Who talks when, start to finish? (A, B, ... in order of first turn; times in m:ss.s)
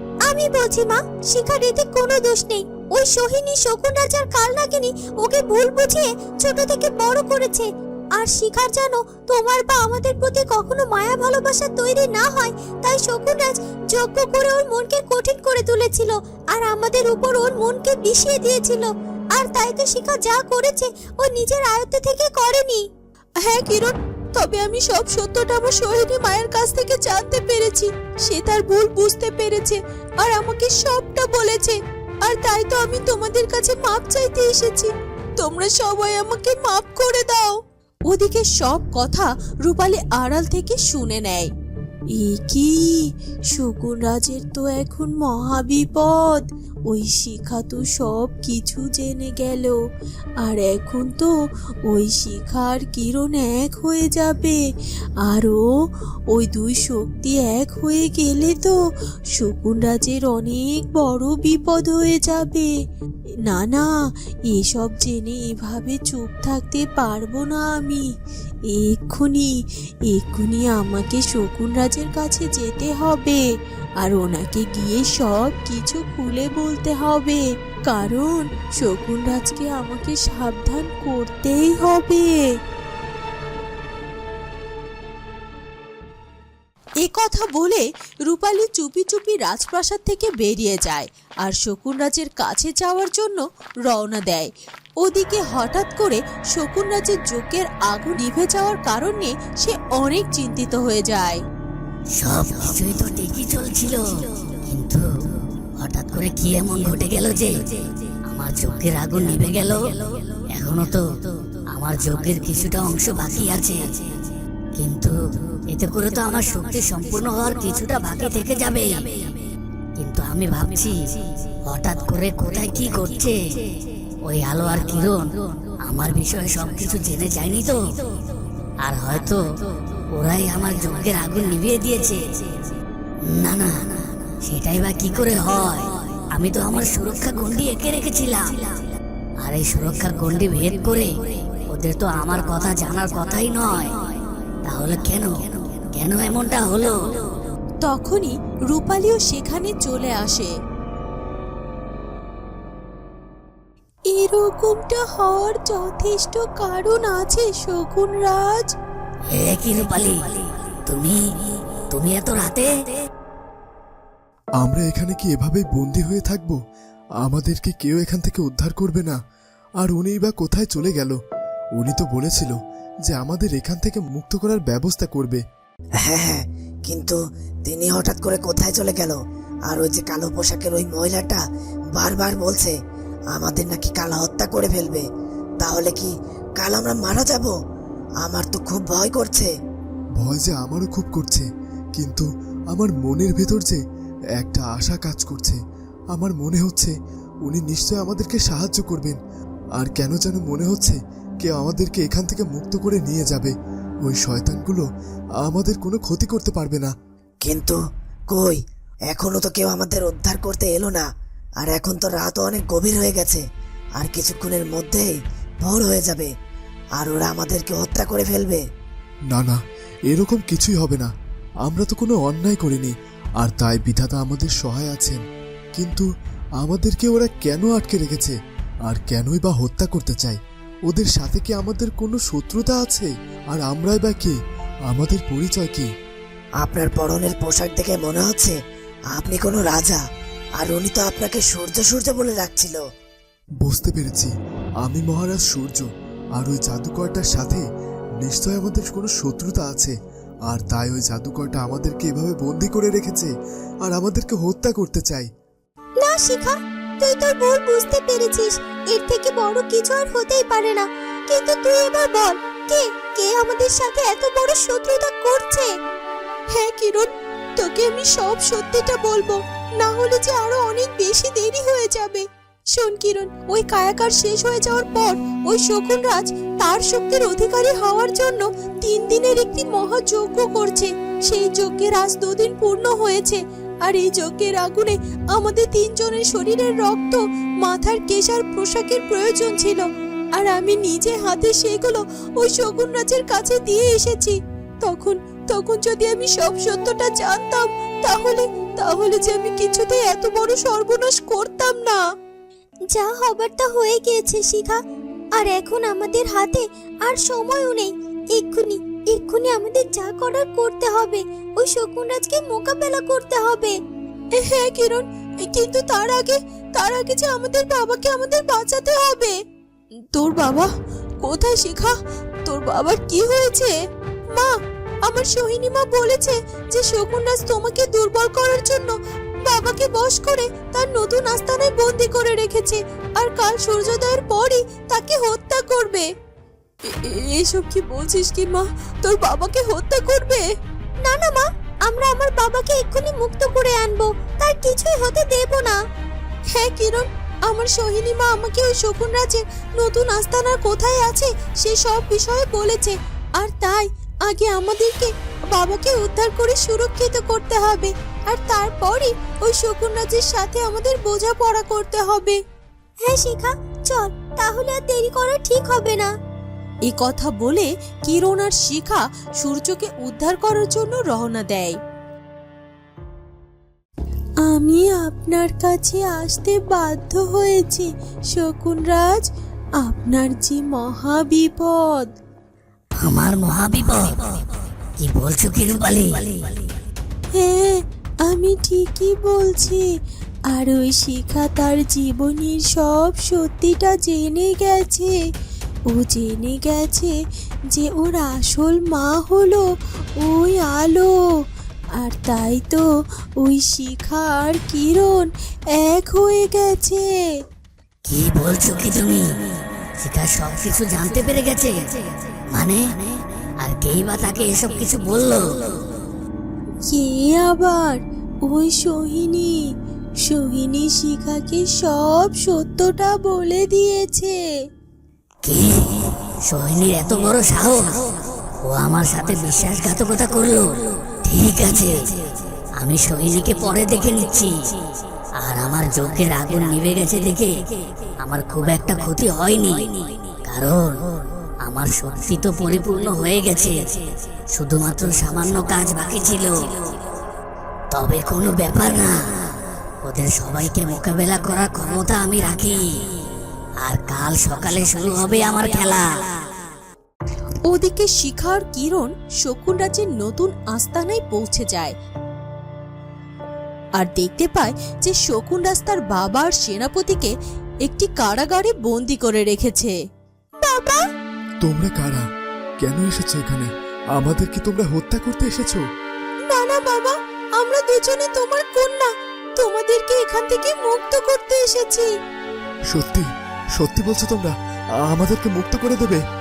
0:00.3-0:22.8 A
0:23.4-0:37.6 B
0:38.1-0:41.5 B
0:42.1-0:49.8 B
0:50.4-0:51.3 B
0:51.8-0:54.6 B
0:55.2-0:55.7 B
0:56.3-0:58.8 B
0:59.3-1:02.7 B
1:03.4-1:03.9 B
1:04.5-1:08.0 B
1:08.7-1:09.5 B
1:10.0-1:13.4 B
1:14.0-1:22.5 B
1:27.0-1:41.4 B
1:42.2-1:45.1 C
1:45.8-1:47.7 C
1:48.3-1:50.0 C
1:50.5-1:53.8 C
1:54.8-1:55.2 C
1:55.7-1:59.1 C
2:00.0-2:01.1 C
2:01.7-2:03.4 C
2:04.2-2:08.0 C
2:08.8-2:09.4 C
2:10.1-2:12.2 C
2:13.3-2:13.9 C
2:14.4-2:18.6 C
2:19.4-2:23.9 C
2:24.6-2:27.2 C
2:27.8-2:30.5 B
2:34.1-2:38.7 B
2:39.3-2:41.2 C
2:41.9-2:42.7 C
2:44.6-2:46.6 D
2:47.2-2:49.2 D
2:49.8-2:51.2 D
2:51.8-2:52.6 D
2:53.1-2:55.4 D
2:56.0-3:01.4 E
3:02.0-3:02.8 E
3:03.3-3:05.1 E
3:05.6-3:07.6 E
3:08.2-3:09.5 E
3:10.2-3:13.8 D
3:14.4-3:15.6 D
3:16.1-3:16.9 D
3:17.4-3:19.2 D
3:19.8-3:23.5 D
3:24.1-3:24.8 D
3:25.4-3:26.9 D
3:27.4-3:31.1 E
3:31.6-3:33.4 E
3:34.0-3:36.3 E
3:37.0-3:38.6 E
3:39.3-3:39.6 D
3:40.1-3:41.1 D
3:41.6-3:45.2 D
3:45.8-3:46.1 D
3:46.6-3:48.3 D
3:48.9-3:50.4 D
3:50.9-3:54.3 D
3:54.9-3:55.9 D
3:56.6-3:58.6 E
3:59.1-4:00.0 E
4:00.6-4:02.8 E
4:03.6-4:07.6 D
4:08.2-4:09.9 D
4:10.5-4:13.3 D
4:13.8-4:15.3 D
4:16.0-4:25.7 A
4:26.5-5:02.0 B
5:02.9-5:04.8 A
5:05.4-5:13.8 A
5:14.3-5:19.4 B
5:20.1-5:20.7 B
5:21.2-5:21.9 B
5:22.4-5:23.7 B
5:25.1-5:36.1 B
5:36.9-5:40.4 B
5:41.0-5:45.8 A
5:46.5-6:02.4 B
6:03.0-6:06.1 A
6:06.8-6:11.8 B
6:14.4-6:19.2 B
6:19.8-6:22.1 B
6:23.0-6:24.2 C
6:25.0-6:26.3 C
6:27.3-6:29.8 B
6:30.5-6:35.2 B
6:35.9-6:37.1 B
6:37.7-6:39.6 B
6:40.2-6:41.1 B
6:42.0-6:42.8 B
6:43.4-6:47.3 B
6:48.1-6:49.2 C
6:50.0-6:51.9 C
6:52.5-6:52.8 C
6:53.6-6:55.6 C
6:56.9-6:59.7 B
7:00.2-7:04.4 B
7:05.4-7:08.0 C
7:08.6-7:12.1 C
7:12.8-7:14.5 C
7:15.4-7:17.6 C
7:18.2-7:21.1 C
7:21.6-7:24.0 C
7:24.5-7:26.7 C
7:27.9-7:29.2 C
7:30.0-7:32.8 C
7:33.8-7:36.3 C
7:37.7-7:42.0 B
7:44.0-7:47.3 B
7:47.8-7:50.0 B
7:50.6-7:51.0 B
7:51.6-7:52.2 D
7:52.8-7:55.8 D
7:56.5-8:02.1 B
8:02.9-8:04.5 D
8:05.1-8:06.2 D